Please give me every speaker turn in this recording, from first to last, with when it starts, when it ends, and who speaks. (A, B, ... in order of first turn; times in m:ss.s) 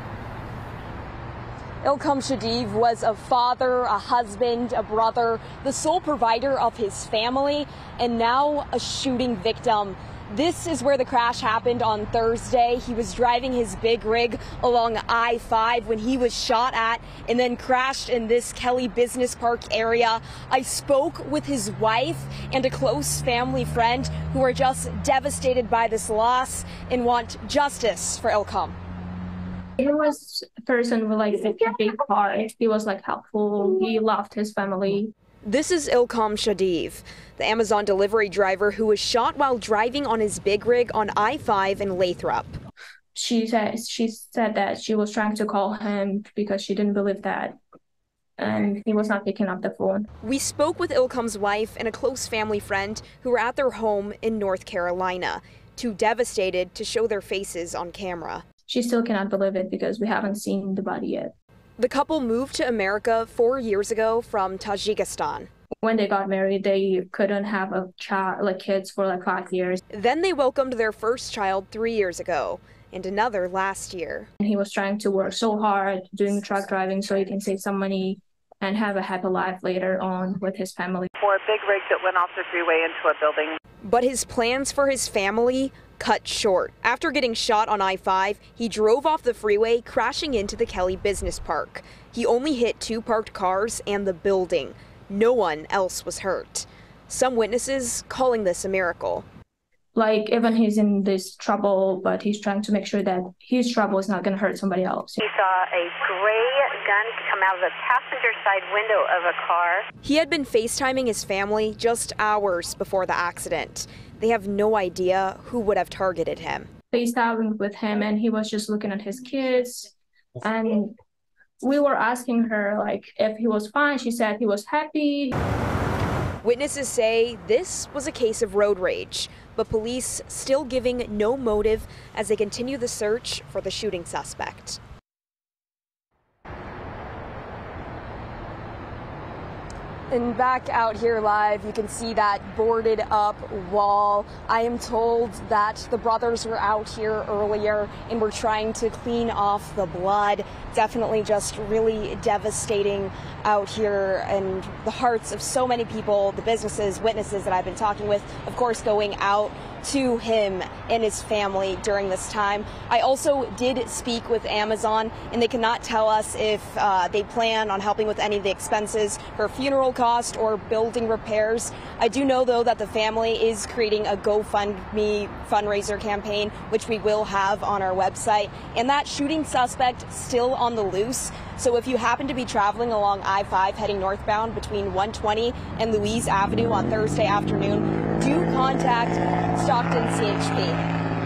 0:01.8-0:28.8 A
0:29.8-0:35.1 B
0:35.4-0:42.6 A
0:43.1-0:47.6 B
0:48.4-0:50.1 B
0:50.2-0:58.4 A
0:58.7-1:01.3 B
1:01.8-1:05.5 A
1:05.8-1:09.8 B
1:09.9-1:14.3 A
1:14.4-1:21.1 B
1:21.2-1:23.6 C
1:23.8-1:39.2 A
1:39.9-1:45.2 B
1:45.2-1:49.8 C
1:50.0-1:56.7 A
1:56.9-2:00.9 B
2:01.6-2:05.3 B
2:06.4-2:14.8 A
2:20.1-3:10.8 A